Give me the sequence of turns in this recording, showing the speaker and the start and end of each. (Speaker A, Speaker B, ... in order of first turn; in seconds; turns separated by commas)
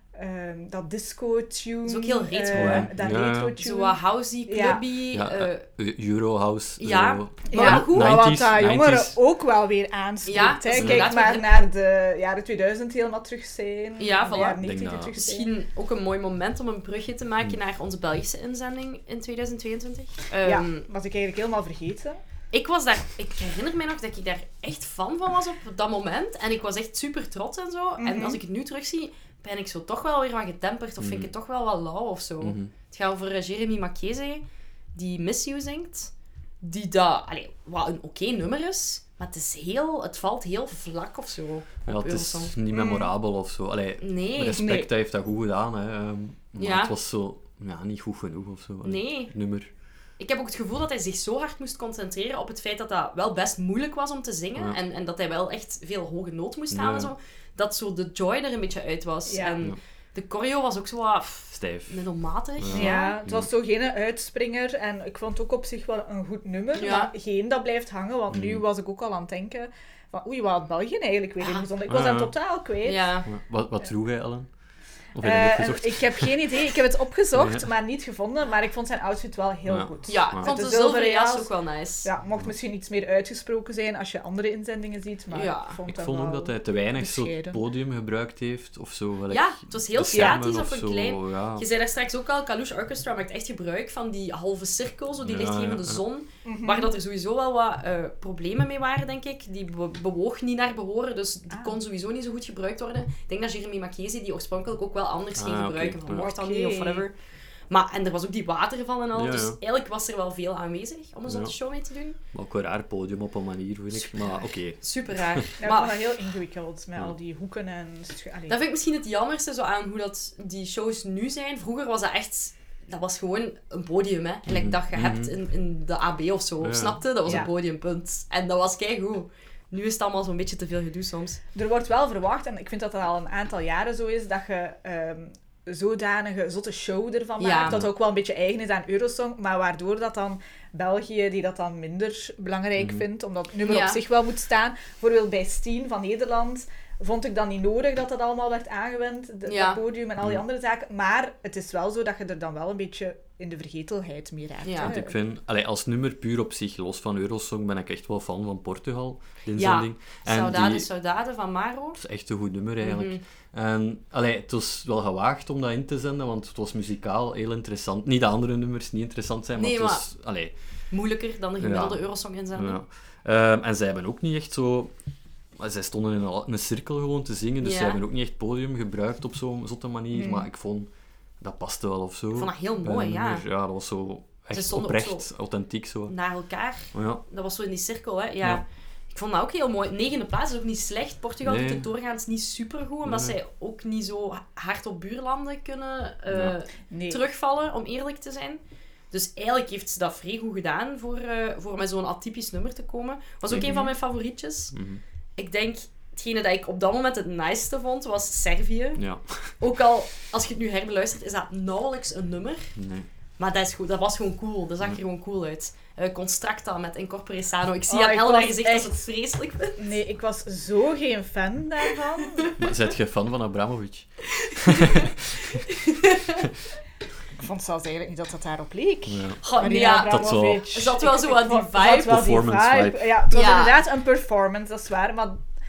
Speaker A: 0.1-4.8, Speaker B: 1.8-5.6, Speaker C: 2.5-3.5, Speaker C: 5.1-9.2, Speaker B: 6.8-8.2, Speaker A: 7.5-15.5, Speaker B: 10.2-11.5, Speaker C: 10.8-11.1, Speaker B: 14.0-20.9, Speaker C: 14.6-15.1, Speaker A: 20.4-22.2, Speaker B: 22.5-42.5, Speaker A: 28.0-28.4, Speaker C: 31.0-31.3, Speaker C: 32.4-32.7, Speaker C: 41.9-49.7, Speaker A: 42.7-43.1, Speaker B: 44.0-44.8, Speaker A: 44.5-44.9, Speaker B: 46.6-46.9, Speaker B: 48.8-49.3, Speaker B: 50.2-63.2, Speaker C: 56.7-57.1, Speaker A: 59.3-59.6, Speaker C: 61.5-62.0, Speaker C: 62.6-63.5, Speaker A: 62.7-73.1, Speaker B: 66.7-67.1, Speaker C: 68.3-68.6, Speaker B: 71.4-71.7, Speaker C: 71.9-72.3, Speaker B: 72.8-73.3, Speaker C: 73.3-74.5, Speaker C: 75.1-76.6, Speaker A: 75.2-81.5, Speaker C: 77.3-77.7, Speaker C: 79.7-80.5, Speaker B: 80.1-82.1, Speaker A: 82.0-87.6, Speaker B: 85.3-85.8, Speaker C: 85.9-91.7, Speaker B: 89.3-107.1, Speaker A: 90.1-90.4, Speaker C: 95.2-96.0, Speaker A: 96.4-96.9, Speaker A: 101.5-101.8, Speaker C: 105.4-106.2, Speaker A: 106.2-107.1, Speaker B: 107.7-112.2, Speaker C: 109.1-109.6, Speaker C: 111.3-111.5, Speaker C: 112.3-115.4, Speaker B: 113.9-116.1, Speaker A: 115.6-118.6, Speaker B: 118.5-131.4, Speaker C: 124.5-125.3, Speaker C: 126.6-127.5, Speaker A: 131.5-155.2, Speaker B: 137.4-137.8, Speaker C: 142.8-143.0, Speaker B: 143.6-144.0, Speaker B: 149.5-149.8, Speaker B: 154.6-154.9, Speaker C: 154.8-160.9, Speaker B: 159.6-162.0, Speaker C: 161.9-170.5, Speaker B: 162.8-163.2, Speaker B: 169.6-170.1, Speaker B: 170.9-172.8, Speaker C: 171.6-174.9, Speaker C: 175.6-180.9, Speaker B: 177.6-178.0, Speaker A: 180.1-180.5, Speaker C: 181.4-186.1, Speaker B: 182.3-183.4, Speaker B: 184.5-185.3, Speaker B: 186.1-198.6, Speaker C: 186.9-187.2, Speaker C: 191.4-191.8, Speaker C: 193.0-193.3, Speaker A: 196.9-197.2, Speaker B: 199.1-204.7, Speaker A: 203.6-203.9, Speaker C: 204.7-205.0, Speaker B: 205.4-209.0, Speaker C: 209.0-209.6, Speaker B: 209.6-212.7, Speaker C: 212.8-213.1, Speaker B: 213.4-219.9, Speaker A: 217.9-218.9, Speaker A: 219.8-222.5, Speaker C: 222.6-225.6, Speaker B: 224.4-225.0, Speaker B: 225.7-226.4, Speaker A: 227.4-235.4, Speaker C: 229.1-230.7, Speaker B: 229.4-232.3, Speaker C: 231.9-233.2, Speaker B: 233.3-233.8